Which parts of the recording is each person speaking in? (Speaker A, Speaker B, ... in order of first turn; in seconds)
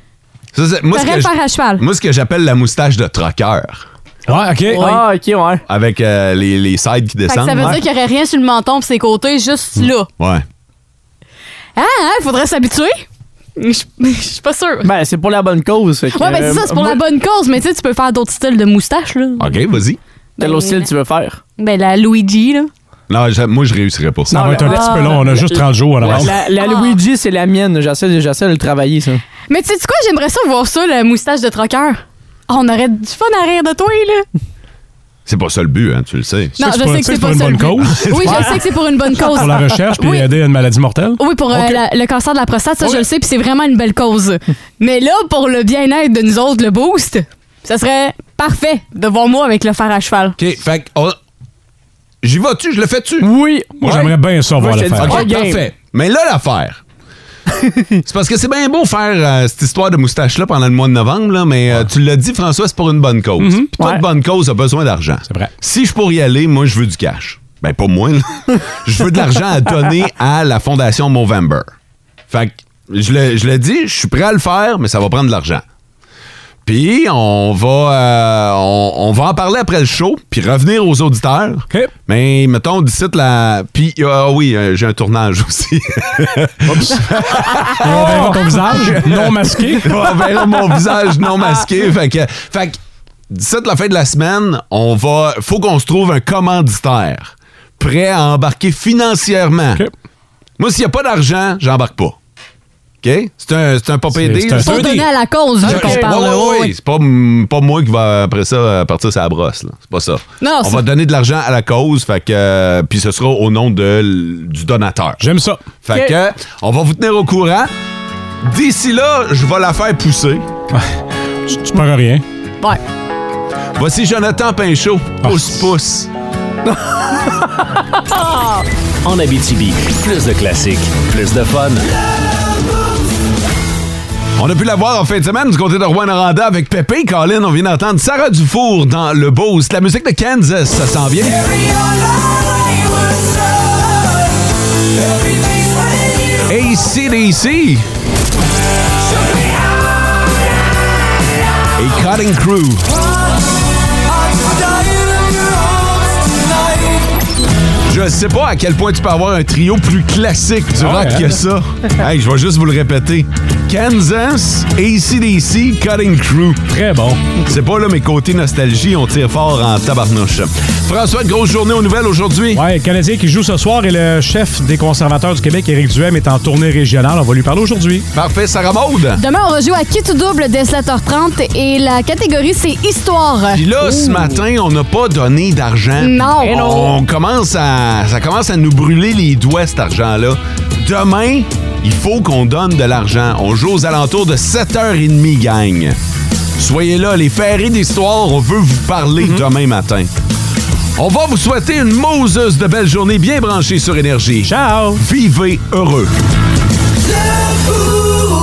Speaker A: 0.5-3.8, 5.7-7.8, 10.2-10.4, 19.4-20.0, 23.1-24.6, 26.0-26.3, 35.2-36.5, 37.8-38.6, 50.4-51.1, 52.2-53.3, 54.6-56.8, 58.0-71.7, 72.3-75.6, 76.6-92.8, 93.3-99.8, 100.6-102.2, 103.0-105.0, 105.6-115.2, 115.8-117.7, 118.4-120.5, 123.8-126.1, 134.4-141.7, 146.4-147.8, 151.8-152.9, 157.9-166.7, 167.4-172.6, 178.1-179.2, 183.5-195.9, 196.6-200.1, 201.0-206.1
Speaker B: 0.9-1.8, 4.7-5.0, 7.3-10.1, 11.8-13.0, 13.6-14.9, 16.1-19.6, 20.4-20.9, 21.6-22.7, 24.6-25.2, 26.4-27.0, 29.5-34.2, 36.6-40.2, 41.2-50.4, 104.6-106.7, 110.4-110.8, 179.2-183.6, 186.0-186.6
Speaker C: 4.3-4.9, 24.3-26.3, 36.6-38.6, 39.2-41.8, 53.8-55.3, 63.4-63.7, 86.7-87.0, 87.8-89.9, 104.1-105.1, 115.2-115.6, 121.5-122.2, 125.2-125.5, 160.8-161.4, 166.7-167.2, 172.5-178.1, 204.4-205.0
Speaker D: 4.7-5.6, 14.8-17.0, 20.4-21.4, 24.3-29.2, 53.2-55.6, 105.7-106.1, 186.4-187.0
Speaker E: 129.0-132.0